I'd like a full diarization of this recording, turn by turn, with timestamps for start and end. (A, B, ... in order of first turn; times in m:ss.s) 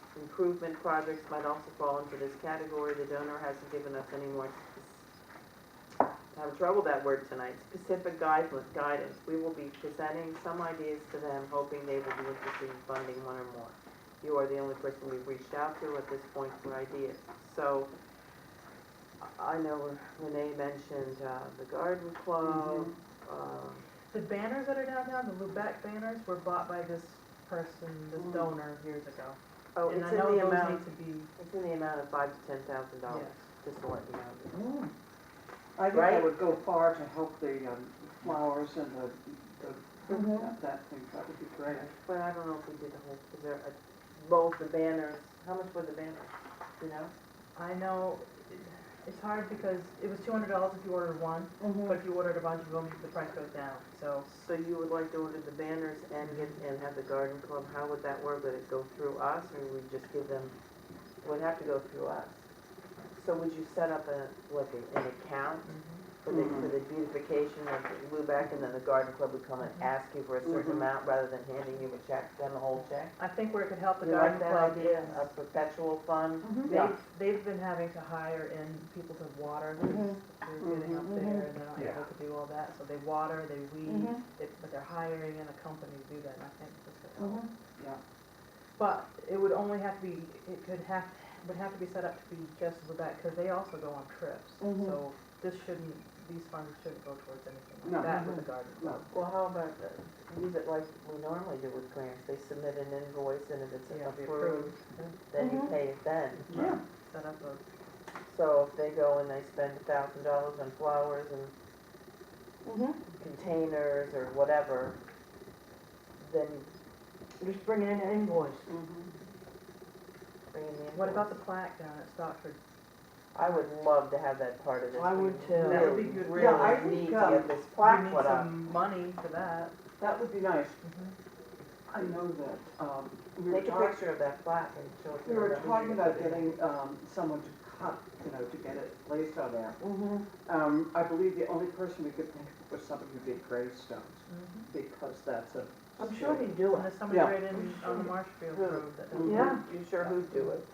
0:00.1-0:05.0 A
0:06.3-0:17.9 A
0:19.2-0:23.9 A
0:22.4-0:22.9 B
0:24.1-0:31.3 C
0:28.2-0:28.4 B
0:29.8-0:30.8 A
0:31.4-0:34.6 A
0:33.1-0:33.4 C
0:34.5-0:34.9 B
0:35.8-0:41.9 B
0:35.9-0:36.5 A
0:40.1-0:40.5 D
0:41.7-0:47.1 A
0:47.6-0:54.3 C
0:51.6-0:52.0 D
0:54.2-1:00.6 A
0:56.2-0:56.6 C
1:01.2-1:02.4 A
1:03.2-1:13.2 A
1:05.6-1:06.0 C
1:06.3-1:06.7 B
1:09.6-1:09.9 C
1:10.4-1:10.9 B
1:13.2-1:15.3 C
1:14.0-1:16.8 A
1:16.6-1:16.9 B
1:16.6-1:27.5 C
1:19.8-1:20.2 D
1:20.6-1:21.2 B
1:21.0-1:22.0 D
1:23.9-1:24.2 D
1:27.2-1:27.5 D
1:27.8-1:28.0 B
1:28.8-1:39.1 C
1:34.6-1:34.9 D
1:37.8-1:39.0 B
1:39.1-1:46.7 A
1:43.9-1:45.1 C
1:45.4-1:45.7 D
1:46.5-1:46.8 B
1:47.1-1:47.6 C
1:48.3-1:51.5 A
1:52.6-1:53.0 D
1:53.1-1:55.0 A
1:56.2-1:56.7 A
1:57.4-1:58.7 D
1:58.7-1:59.1 B
2:00.5-2:01.4 A
2:00.9-2:02.6 C
2:03.3-2:08.6 A
2:03.4-2:03.7 C
2:04.9-2:06.0 D
2:05.6-2:06.9 C
2:06.2-2:07.6 B
2:07.8-2:09.7 C
2:10.0-2:10.8 B
2:10.8-2:11.2 C
2:11.9-2:14.0 B
2:13.5-2:16.6 A
2:15.2-2:28.0 B
2:19.8-2:20.3 D
2:24.3-2:24.7 C
2:26.0-2:27.0 D
2:26.7-2:30.5 C
2:28.5-2:30.7 A
2:29.2-2:29.6 D
2:29.2-2:29.6 B